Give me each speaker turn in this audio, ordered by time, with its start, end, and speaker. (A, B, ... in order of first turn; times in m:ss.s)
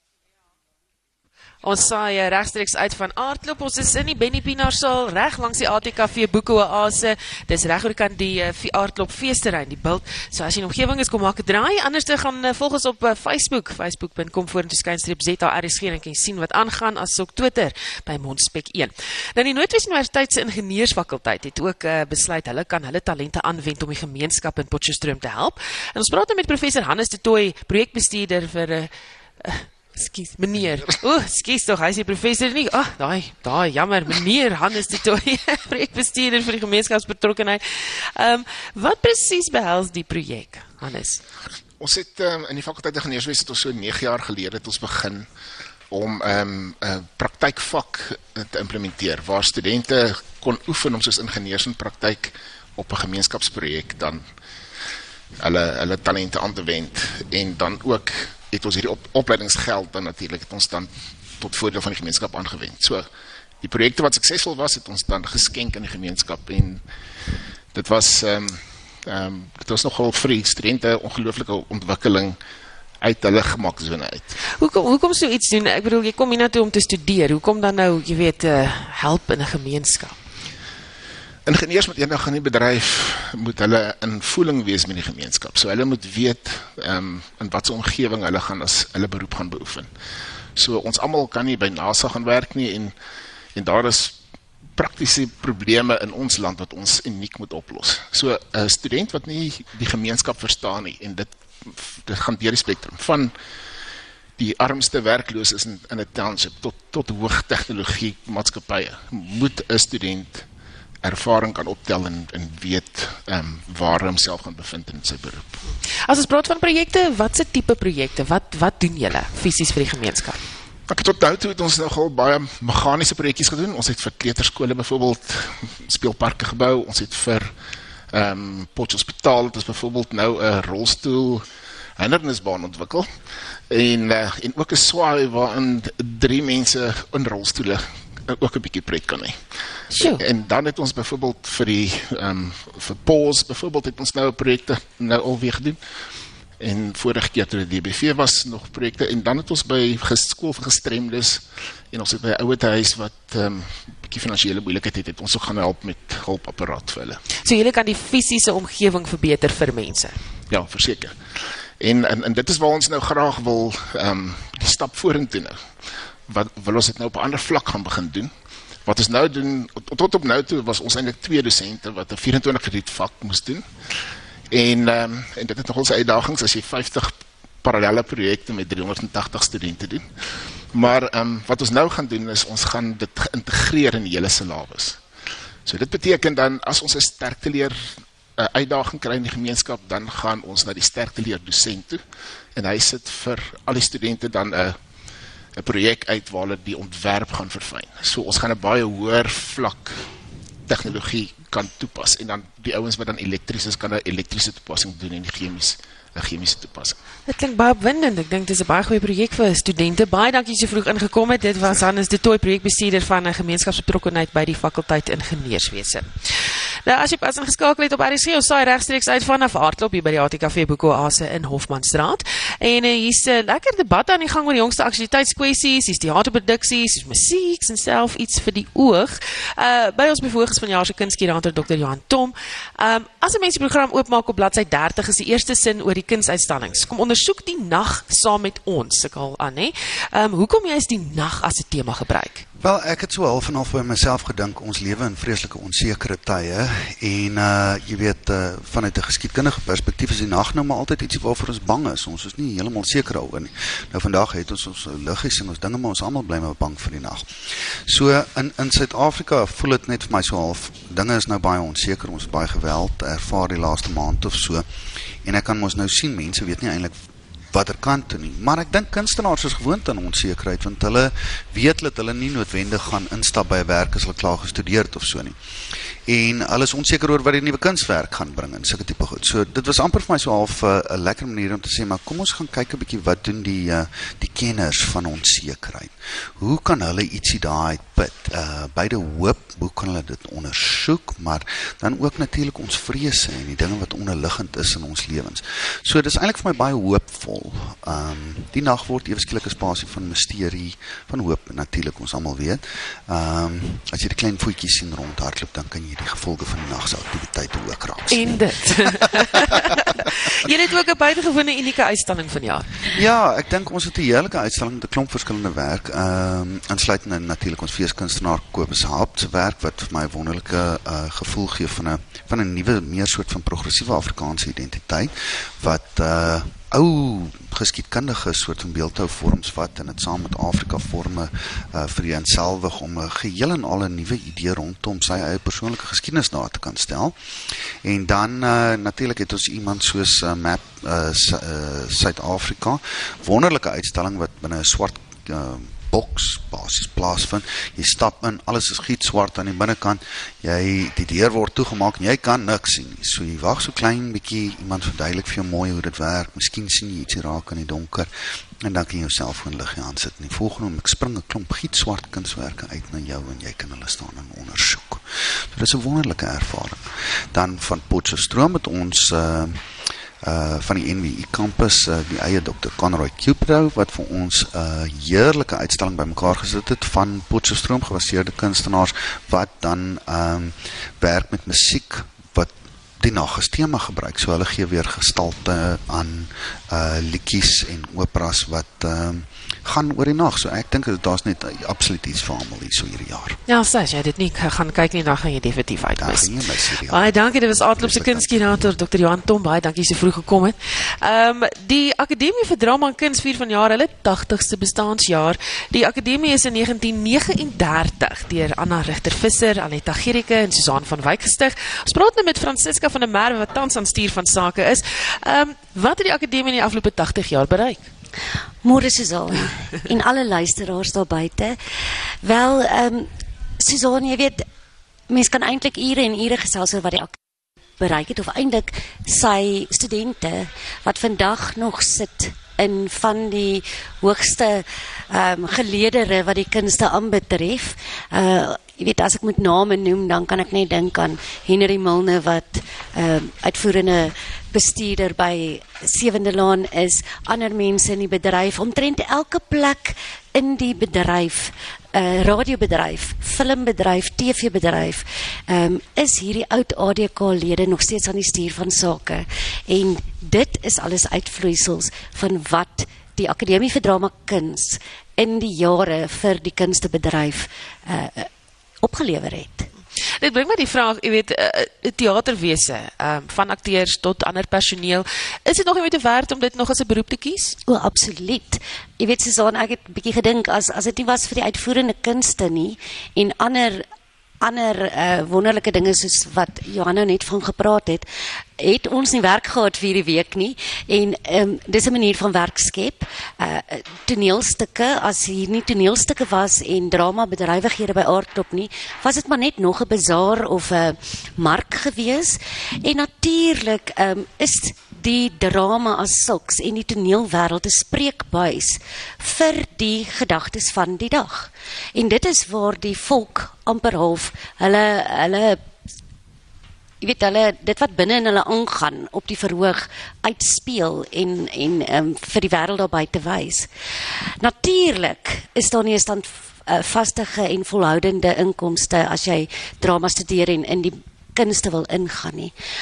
0:01.6-0:41.2 A
0:41.8-0:45.3 B
0:45.9-0:54.2 B
0:55.4-1:03.0 B
1:03.6-1:06.8 B
1:07.7-1:12.4 B
1:13.0-1:14.3 B
1:14.6-1:20.2 A
1:21.4-1:29.9 B
1:30.6-1:32.9 B
1:33.5-1:34.2 B
1:34.7-1:43.3 B
1:44.4-1:50.4 B
1:51.0-1:55.5 B
1:56.0-2:00.4 A
2:00.9-2:07.5 B
2:08.1-2:11.4 B
2:12.0-2:13.1 B
2:13.7-2:19.4 B
2:19.9-2:20.2 A
2:20.0-2:25.8 B
2:26.6-2:37.2 B
2:37.4-2:40.2 A
2:40.5-2:45.7 B
2:46.3-2:48.3 B
2:48.8-2:53.7 B
2:54.5-3:00.0 B
3:00.7-3:05.0 B
3:05.6-3:07.8 B
3:08.4-3:12.0 B
3:12.5-3:14.8 B
3:15.6-3:20.0 B
3:20.7-3:27.0 B
3:27.3-4:02.4 A
4:02.6-4:24.7 C
4:25.2-4:26.9 C
4:27.5-4:35.4 C
4:36.0-5:08.8 C
5:08.1-5:12.9 A
5:12.9-5:37.2 C
5:37.8-5:58.1 C
5:58.6-6:09.6 C
6:10.2-6:33.4 C
6:33.5-6:36.3 A
6:36.0-6:37.2 C
6:36.9-6:57.9 A
6:37.8-6:38.7 C
6:58.6-7:01.6 D
7:02.2-7:04.4 D
7:05.1-7:07.1 D
7:07.8-7:48.3 D
7:48.8-7:49.7 D
7:50.0-7:57.6 A
7:57.7-8:03.8 D
8:04.4-8:08.0 D
8:08.6-8:35.6 D
8:37.0-8:43.7 D
8:44.4-8:52.5 D